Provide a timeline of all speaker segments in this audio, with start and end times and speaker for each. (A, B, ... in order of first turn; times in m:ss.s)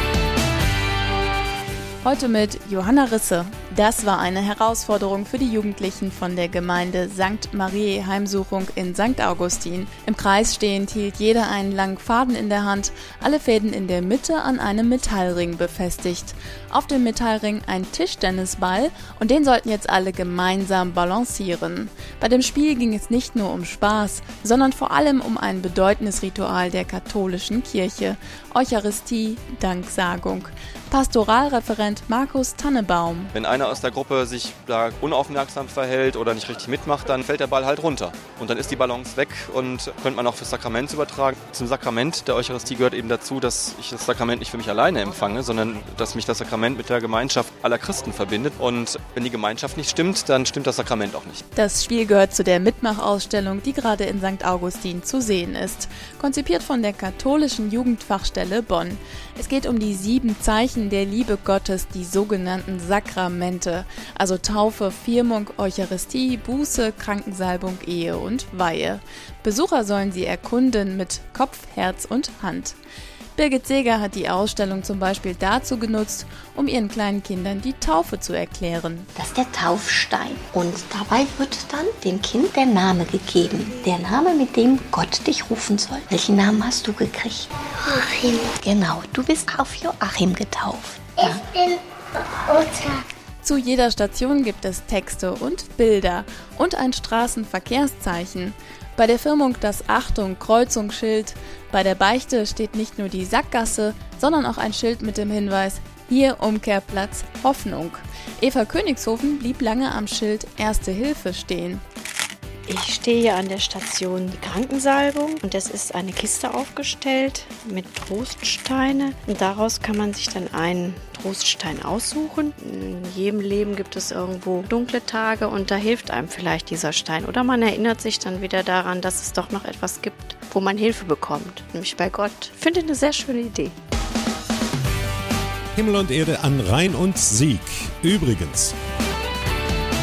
0:02.0-0:33.3 A
0:33.3-0:51.4 B
0:51.5-1:12.8 A
1:13.4-1:19.1 A
1:19.2-1:31.8 C
1:32.5-1:33.0 C
1:33.4-1:51.8 A
1:52.7-2:13.7 D
2:15.7-2:18.7 E